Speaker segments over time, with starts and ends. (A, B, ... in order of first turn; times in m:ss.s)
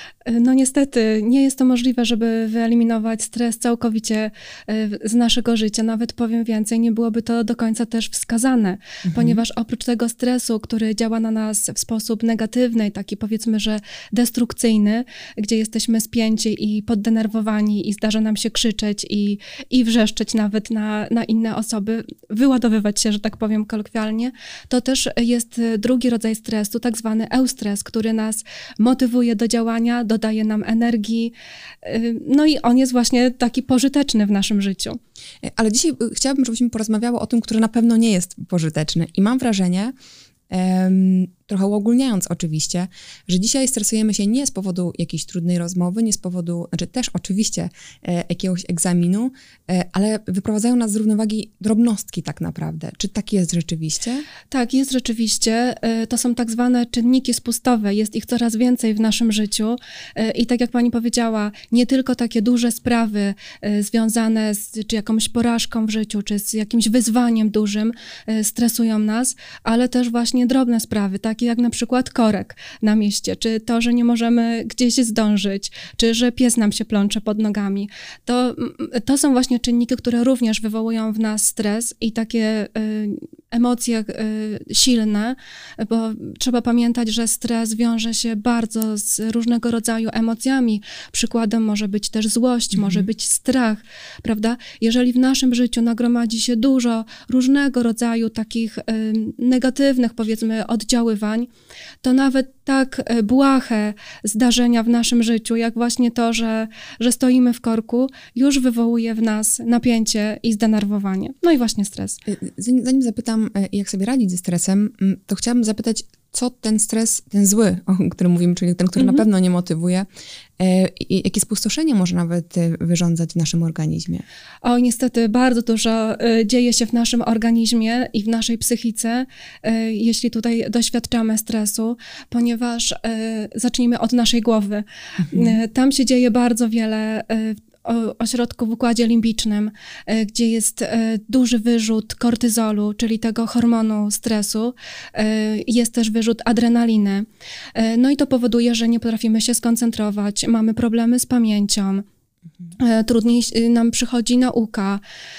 0:00.2-0:35.0 A
0:09.0-0:09.4 B
0:35.4-0:39.9 B
0:40.5-0:54.2 B
0:54.5-1:41.5 A
1:32.7-1:33.1 B
1:42.0-1:52.2 A
1:52.3-2:00.1 B
1:59.0-1:59.2 A
2:00.6-2:04.2 B
2:04.6-2:32.0 A
2:15.2-2:15.6 B
2:32.8-2:35.0 A